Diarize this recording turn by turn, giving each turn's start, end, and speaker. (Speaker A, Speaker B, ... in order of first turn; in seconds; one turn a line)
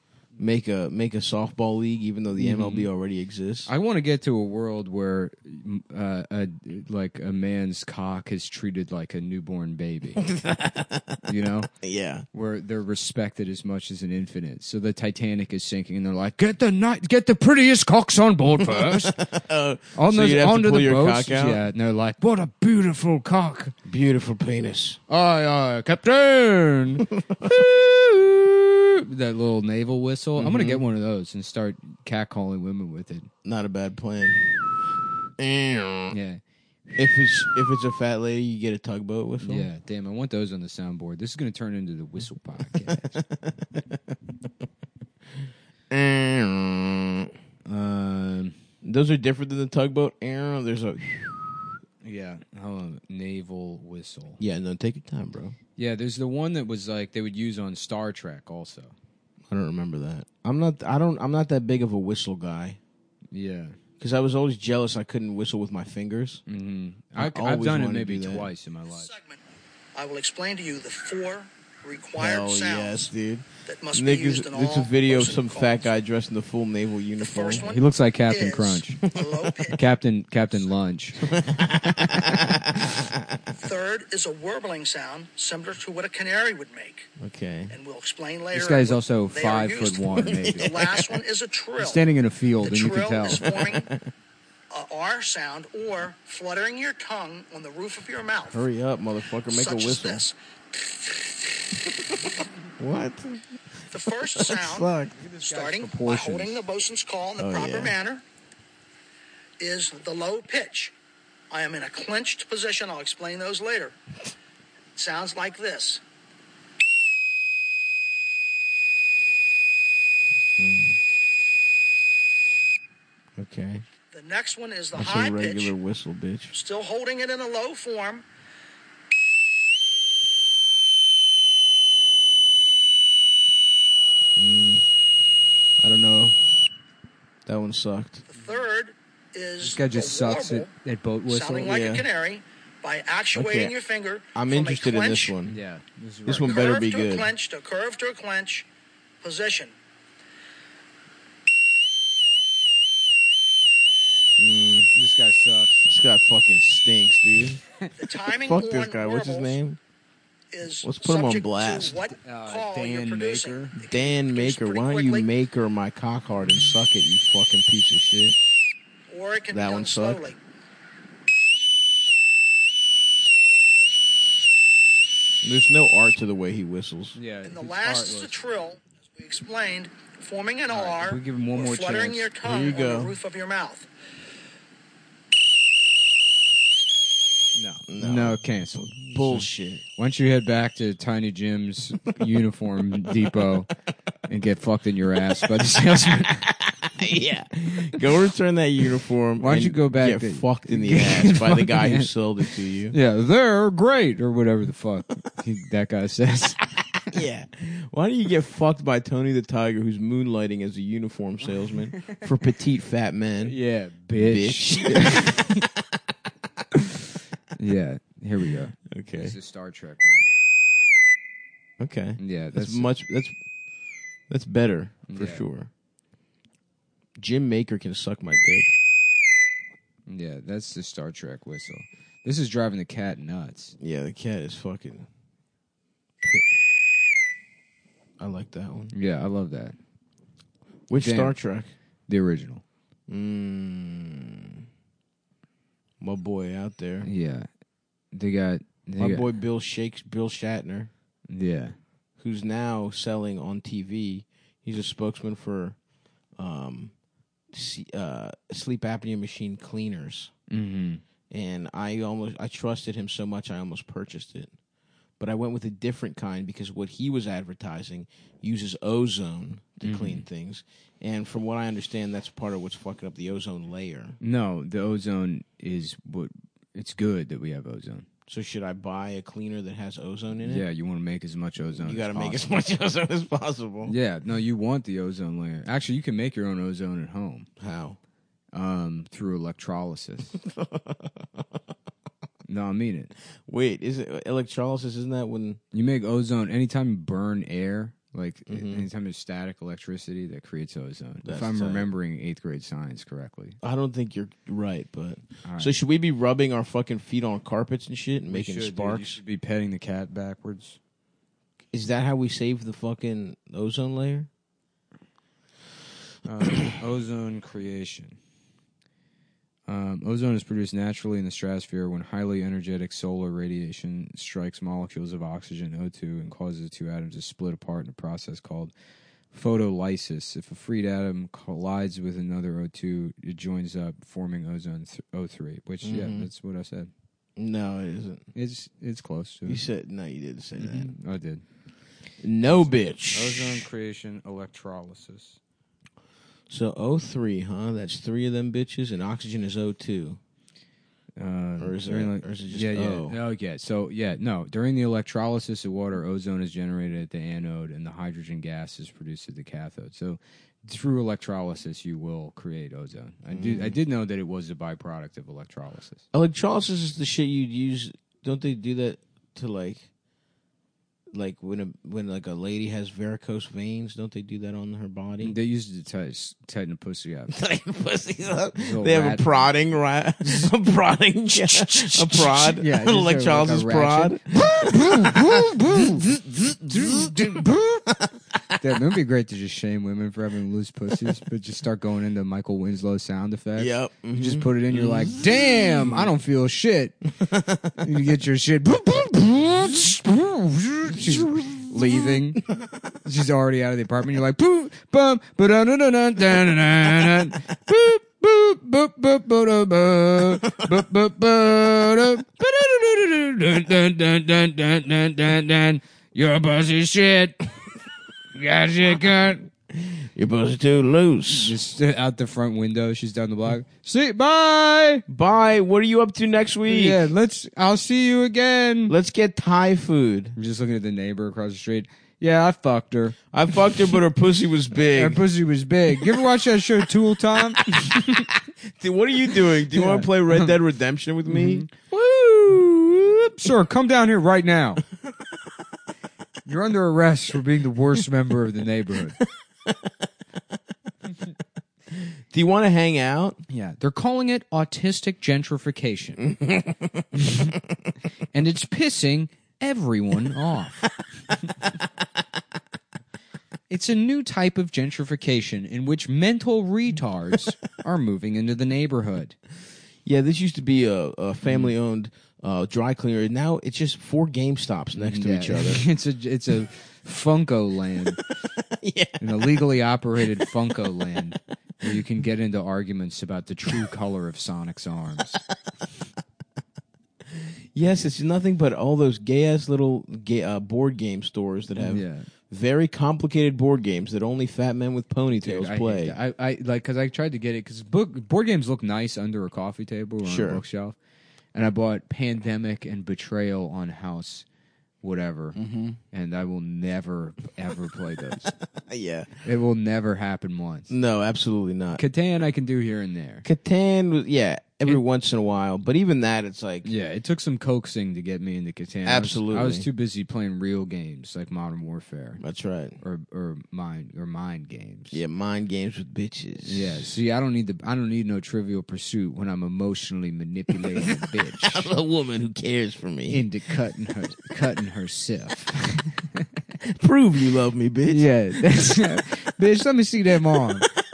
Speaker A: 0.4-3.7
Speaker B: 2.4-2.9
Speaker B: 3.7-10.2
Speaker A: 10.2-11.2
Speaker B: 11.2-11.7
Speaker A: 11.8-12.2
Speaker B: 12.3-19.1
Speaker A: 18.6-21.6
Speaker B: 19.9-23.7
Speaker A: 23.8-25.0
Speaker B: 25.1-33.3
Speaker A: 30.4-30.8
Speaker A: 33.4-34.4
Speaker A: 35.4-36.1
Speaker B: 36.1-36.4
Speaker A: 36.9-39.7
Speaker B: 39.4-43.2
Speaker A: 42.7-44.1
Speaker A: 45.9-47.3
Speaker B: 47.6-48.6
Speaker A: 48.8-51.8
Speaker B: 52.0-54.4
Speaker A: 54.4-55.5
Speaker B: 55.8-58.9
Speaker A: 59.5-62.8
Speaker B: 63.3-63.8
Speaker A: 64.0-66.4
Speaker B: 66.5-69.1
Speaker A: 67.1-68.5
Speaker C: 68.9-69.4
Speaker C: 69.9-73.1
Speaker A: 72.2-77.7
Speaker C: 73.7-75.9
Speaker C: 77.2-79.8
Speaker B: 77.6-79.0
Speaker A: 79.0-79.5
Speaker B: 79.7-81.3
Speaker A: 81.2-83.5
Speaker B: 82.1-82.4
Speaker C: 83.5-87.1
Speaker A: 87.2-87.7
Speaker C: 87.7-92.0
Speaker B: 88.5-90.7
Speaker A: 90.2-91.1
Speaker B: 91.8-93.5
Speaker C: 92.6-93.9
Speaker A: 93.4-94.1
Speaker C: 94.7-98.6
Speaker A: 98.5-100.2
Speaker C: 99.5-100.3
Speaker A: 101.8-105.1
Speaker C: 103.9-108.2
Speaker B: 105.1-106.6
Speaker A: 107.4-108.0
Speaker C: 109.6-110.9
Speaker C: 111.5-114.0
Speaker C: 115.0-116.0
Speaker A: 120.6-121.0
Speaker A: 123.3-123.8
Speaker C: 124.1-125.7
Speaker A: 124.9-126.5
Speaker C: 126.5-128.2
Speaker A: 134.3-134.8
Speaker A: 135.8-136.7
Speaker A: 137.4-138.2
Speaker C: 138.3-140.7
Speaker B: 139.6-141.7
Speaker C: 141.3-145.3
Speaker A: 141.6-142.0
Speaker A: 143.3-143.7
Speaker A: 144.3-145.6
Speaker B: 145.4-146.6
Speaker A: 146.3-147.3
Speaker C: 146.4-148.7
Speaker C: 149.2-149.7
Speaker A: 154.4-154.9
Speaker B: 154.9-155.8
Speaker A: 155.8-157.6
Speaker C: 158.0-159.6
Speaker A: 158.3-159.8
Speaker C: 160.5-165.3
Speaker A: 160.8-162.0
Speaker B: 162.0-163.7
Speaker A: 163.8-168.3
Speaker C: 169.1-170.4
Speaker A: 169.5-170.2
Speaker A: 175.4-177.2
Speaker B: 177.1-178.3
Speaker C: 177.4-183.9
Speaker B: 180.7-182.3
Speaker A: 182.4-183.2
Speaker B: 187.5-193.7
Speaker A: 187.9-189.8
Speaker B: 194.3-196.4
Speaker A: 196.0-202.9
Speaker B: 199.4-202.1
Speaker B: 202.9-207.0
Speaker A: 207.1-213.6
Speaker B: 213.4-215.5
Speaker A: 214.1-215.7
Speaker B: 217.6-220.3
Speaker A: 218.9-219.3
Speaker A: 221.8-223.3
Speaker B: 222.2-222.9
Speaker A: 224.3-225.7
Speaker B: 225.1-225.4
Speaker A: 227.2-228.8
Speaker B: 230.1-233.7
Speaker A: 233.8-235.1
Speaker A: 236.2-236.6
Speaker A: 238.2-238.9
Speaker B: 238.9-239.8
Speaker A: 240.9-241.7
Speaker B: 240.9-241.4
Speaker B: 242.1-242.6
Speaker A: 243.1-244.6
Speaker A: 246.0-247.1
Speaker B: 247.0-247.5
Speaker B: 248.1-249.3
Speaker A: 249.0-250.9
Speaker B: 251.3-251.8
Speaker A: 252.2-255.8
Speaker A: 256.4-256.9
Speaker A: 257.5-260.3
Speaker B: 260.5-261.0
Speaker A: 261.3-264.5
Speaker A: 265.2-274.2
Speaker B: 269.8-270.2
Speaker B: 274.2-278.1
Speaker A: 278.3-280.6
Speaker B: 280.4-282.5
Speaker A: 281.8-283.9
Speaker B: 283.8-287.5
Speaker A: 287.6-288.0
Speaker B: 288.5-290.4
Speaker A: 290.4-291.3
Speaker B: 292.4-293.1
Speaker A: 293.4-295.6
Speaker B: 295.7-303.6
Speaker A: 298.5-298.9
Speaker A: 301.2-301.9
Speaker A: 303.6-309.2
Speaker B: 305.4-305.7
Speaker B: 308.3-310.8
Speaker A: 311.7-314.3
Speaker B: 316.2-318.2
Speaker B: 319.7-328.7
Speaker B: 329.3-336.9
Speaker A: 335.8-336.3
Speaker A: 337.4-338.3
Speaker B: 338.3-339.6
Speaker A: 339.4-340.9
Speaker B: 340.6-341.4
Speaker A: 342.2-343.6
Speaker B: 342.6-345.4
Speaker A: 346.5-350.2
Speaker B: 351.2-366.0
Speaker A: 351.6-353.2
Speaker A: 363.3-363.8
Speaker A: 366.1-369.9
Speaker A: 371.1-375.3
Speaker B: 375.2-377.4
Speaker A: 377.3-387.4
Speaker B: 378.6-379.5
Speaker B: 380.2-380.5
Speaker B: 381.3-386.1
Speaker B: 386.6-387.9
Speaker B: 388.6-397.0
Speaker A: 393.6-396.1
Speaker A: 397.2-397.7
Speaker B: 397.8-402.4
Speaker A: 400.9-402.6
Speaker B: 403.0-417.5
Speaker B: 418.3-419.5
Speaker A: 419.7-421.5
Speaker B: 421.3-425.0
Speaker A: 425.1-427.1
Speaker B: 426.7-428.9
Speaker A: 428.9-430.4
Speaker B: 430.4-433.2
Speaker A: 433.3-435.2
Speaker B: 434.8-438.3
Speaker A: 437.6-442.8
Speaker B: 439.7-440.5
Speaker B: 441.3-444.8
Speaker B: 446.4-449.2
Speaker A: 451.9-453.4
Speaker B: 453.5-456.2
Speaker A: 456.3-457.0
Speaker B: 457.2-457.5
Speaker B: 458.3-460.9
Speaker B: 463.7-469.4
Speaker A: 470.0-475.8
Speaker B: 471.4-471.7
Speaker B: 474.9-478.2
Speaker A: 478.7-479.2
Speaker B: 479.2-485.4
Speaker A: 487.3-496.1
Speaker B: 491.8-492.3
Speaker B: 495.4-500.9
Speaker A: 500.2-500.6
Speaker B: 501.5-504.4
Speaker B: 505.0-505.6
Speaker A: 505.5-506.0
Speaker B: 506.1-508.5
Speaker A: 508.4-509.3
Speaker B: 509.4-510.9
Speaker A: 510.9-512.0
Speaker B: 511.9-513.4
Speaker A: 513.4-516.9
Speaker B: 516.8-522.4
Speaker A: 519.0-519.9
Speaker A: 522.4-523.0
Speaker B: 523.0-525.2
Speaker A: 525.1-527.1
Speaker B: 526.6-531.9
Speaker A: 530.7-533.5
Speaker B: 533.3-536.5
Speaker A: 536.8-538.4
Speaker B: 538.1-540.9